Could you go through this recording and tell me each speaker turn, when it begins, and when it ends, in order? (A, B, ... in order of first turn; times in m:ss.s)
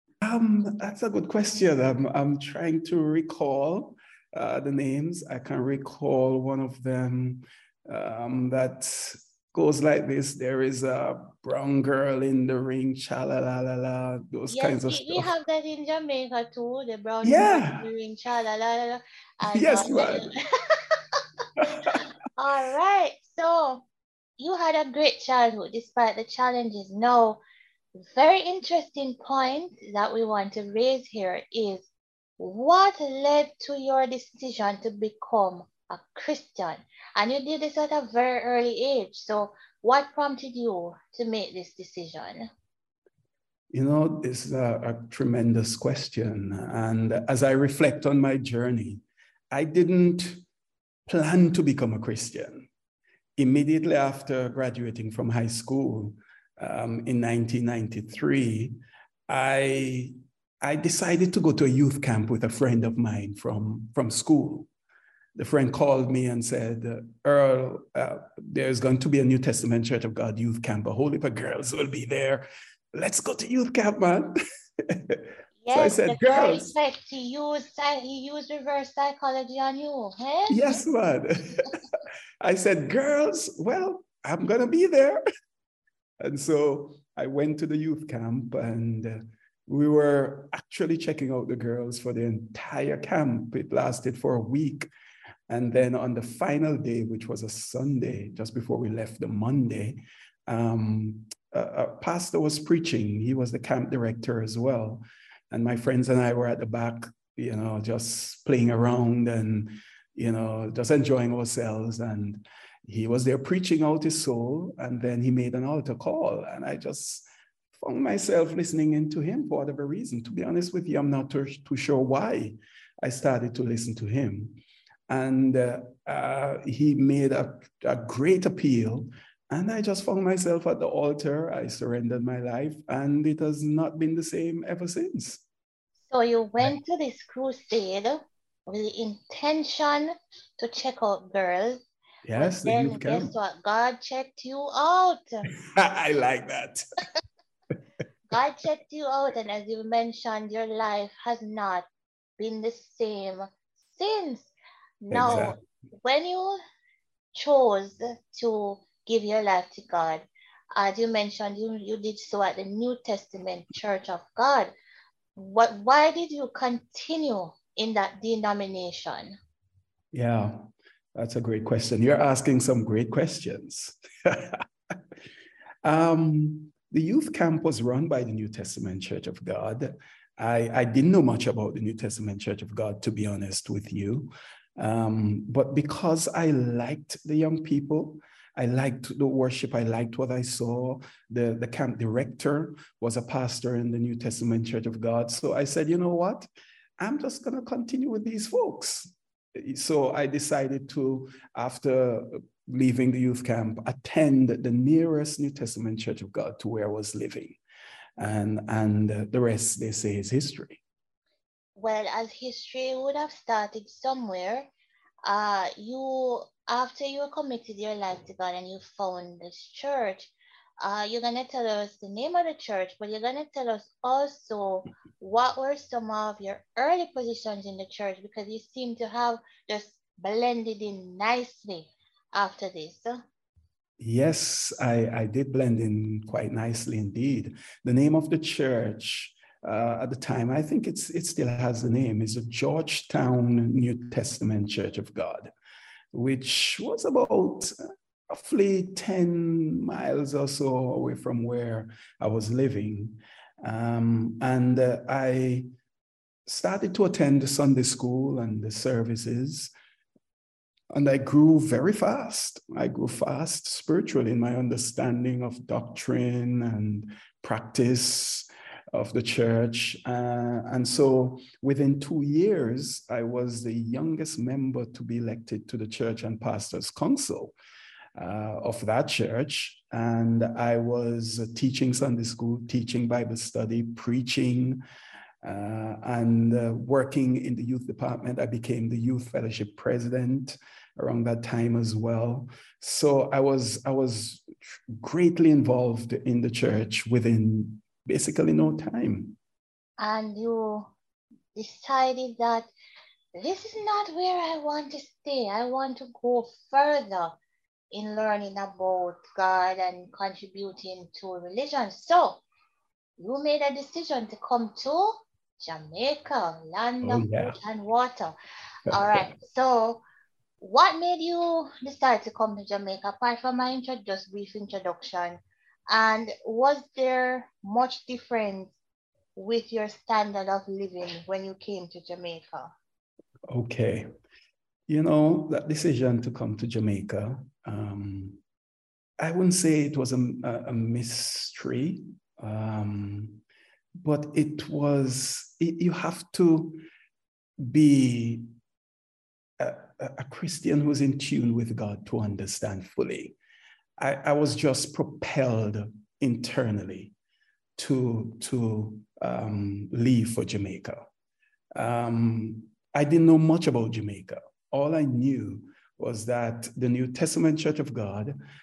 0:00.2-0:15.3 A
0:14.5-0:23.8 B
0:17.2-0:17.9 A
0:19.4-0:20.3 A
0:21.6-0:22.0 A
0:24.4-0:27.4 B
0:28.0-0:31.9 B
0:32.4-0:42.5 B
0:43.7-0:50.4 A
0:51.1-0:52.7 A
0:53.4-1:04.7 A
1:05.4-1:16.7 A
1:15.6-1:20.8 B
1:20.5-1:21.8 A
1:22.4-1:25.2 A
1:26.2-1:34.9 A
1:35.5-1:57.3 A
1:57.8-2:15.4 A
2:16.1-2:21.8 B
2:22.2-2:23.3 A
2:22.4-2:25.5 B
2:25.6-2:26.8 A
2:28.3-2:31.9 B
2:32.4-2:36.6 B
2:35.1-2:35.6 A
2:37.3-2:44.7 B
2:45.4-2:49.4 B
2:50.1-2:50.6 A
2:51.2-2:55.0 A
2:55.8-3:27.6 A
3:28.2-3:30.8 A
3:31.8-3:34.7 B
3:35.2-3:53.2 B
3:54.0-4:05.5 A
4:06.1-4:07.7 A
4:08.3-4:15.7 A
4:16.5-4:19.7 A
4:20.9-4:37.6 A
4:38.2-4:44.8 A
4:45.4-4:59.4 A
5:00.0-5:00.9 B
5:01.6-5:02.7 B
5:03.4-5:07.4 B
5:07.9-5:12.4 B
5:13.2-5:18.4 B
5:17.0-5:17.6 A
5:18.9-5:20.0 B
5:18.9-5:19.3 A
5:20.6-5:28.7 B
5:29.4-5:32.7 B
5:33.5-5:34.1 A
5:34.9-5:38.4 A
5:39.2-5:43.4 A
5:44.0-5:46.8 A
5:47.6-5:48.5 A
5:49.6-5:53.4 A
5:54.0-5:57.1 A
5:57.8-6:01.1 A
6:01.7-6:08.4 A